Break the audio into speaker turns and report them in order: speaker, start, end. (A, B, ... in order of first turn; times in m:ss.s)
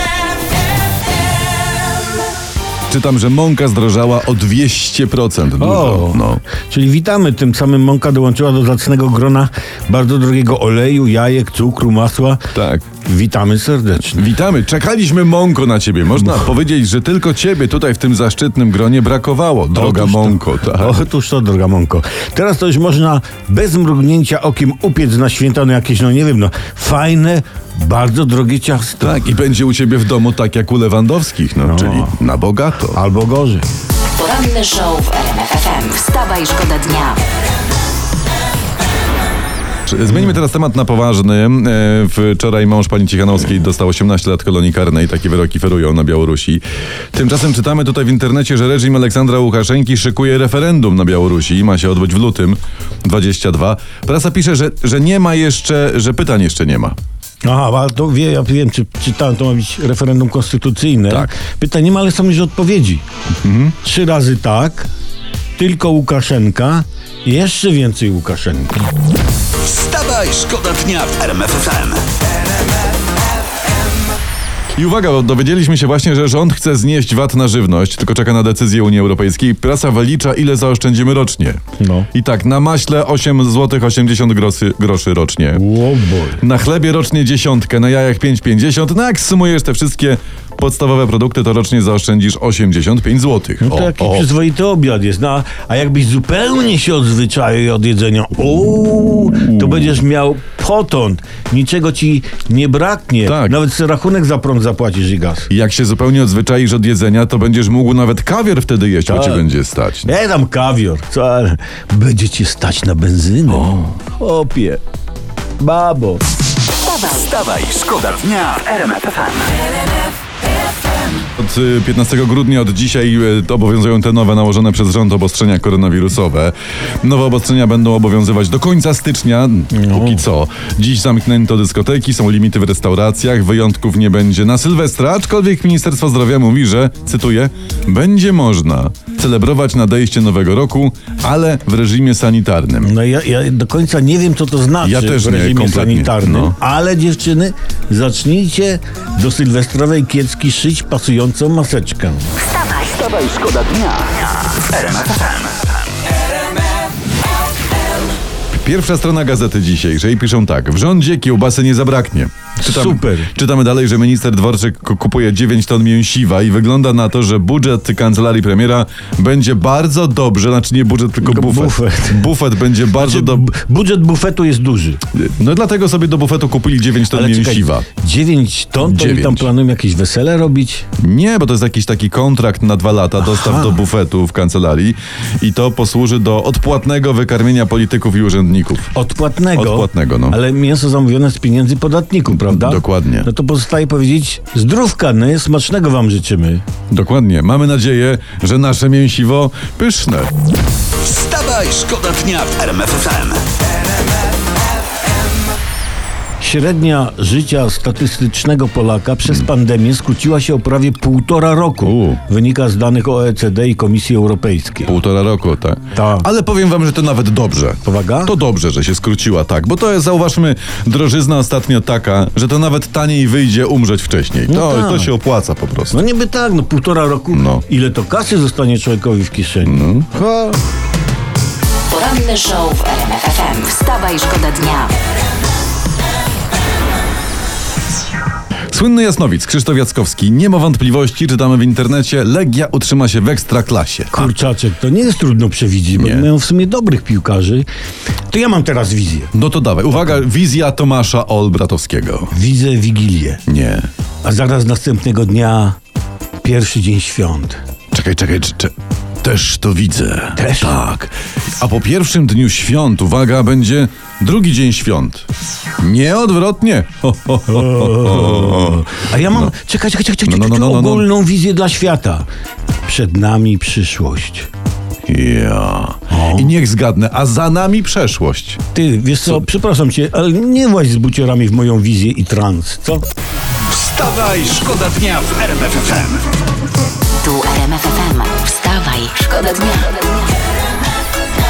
0:02.9-0:06.4 A
0:05.6-0:12.5 B
0:12.5-0:12.8 A
0:13.0-0:14.2 B
0:14.2-0:21.0 A
0:19.7-0:29.2 B
0:29.0-0:33.0 A
0:31.6-0:32.1 B
0:32.9-0:33.6 B
0:34.2-0:37.2 C
0:39.9-0:57.0 A
0:57.4-1:03.0 B
1:01.1-1:01.4 A
1:03.4-1:03.7 A
1:03.8-1:04.9 B
1:05.6-1:08.9 B
1:09.6-1:12.0 D
1:14.7-1:21.6 A
1:21.8-1:22.1 B
1:22.1-1:25.6 A
1:25.5-1:26.4 B
1:26.4-1:34.3 A
1:33.6-1:45.5 B
1:39.4-1:40.0 A
1:43.2-1:43.5 A
1:45.5-1:50.1 A
1:49.1-1:49.4 B
1:50.0-1:54.8 B
1:53.5-1:53.9 A
1:55.6-1:56.2 B
1:56.9-1:57.3 C
1:57.0-1:59.5 D
2:01.4-2:22.9 A
2:09.7-2:10.2 B
2:22.8-2:32.3 B
2:24.8-2:26.6 A
2:32.6-2:32.9 C
2:32.8-2:35.6 D
2:38.5-2:53.5 A
2:42.6-2:43.3 B
2:51.2-2:52.3 B
2:52.9-2:55.0 B
2:55.1-2:57.9 A
2:57.1-3:00.8 B
2:58.8-2:59.5 A
3:01.0-3:08.9 A
3:03.2-3:03.8 B
3:08.9-3:16.6 B
3:09.5-3:10.4 A
3:12.3-3:13.3 A
3:16.9-3:20.3 A
3:21.0-3:23.4 D
3:26.4-3:34.9 B
3:31.8-3:32.2 A
3:34.8-3:46.0 A
3:35.9-3:36.3 B
3:37.8-3:38.3 B
3:44.5-3:45.1 B
3:45.9-3:50.6 B
3:47.3-3:47.6 A
3:49.6-3:50.1 A
3:51.9-3:54.9 C
3:58.7-4:04.3 A
4:04.1-4:07.6 B
4:05.9-4:06.3 A
4:08.3-4:09.3 B
4:09.3-4:12.3 A
4:12.3-4:13.4 B
4:13.5-4:13.9 A
4:14.2-4:15.8 B
4:16.4-4:17.6 B
4:17.9-4:25.3 A
4:20.3-4:20.8 B
4:25.8-4:29.5 A
4:27.5-4:32.2 B
4:30.2-4:31.1 A
4:32.9-4:34.5 B
4:35.1-4:38.6 A
4:36.1-4:36.5 B
4:38.7-4:43.0 B
4:43.7-4:46.2 D
4:47.2-4:50.3 C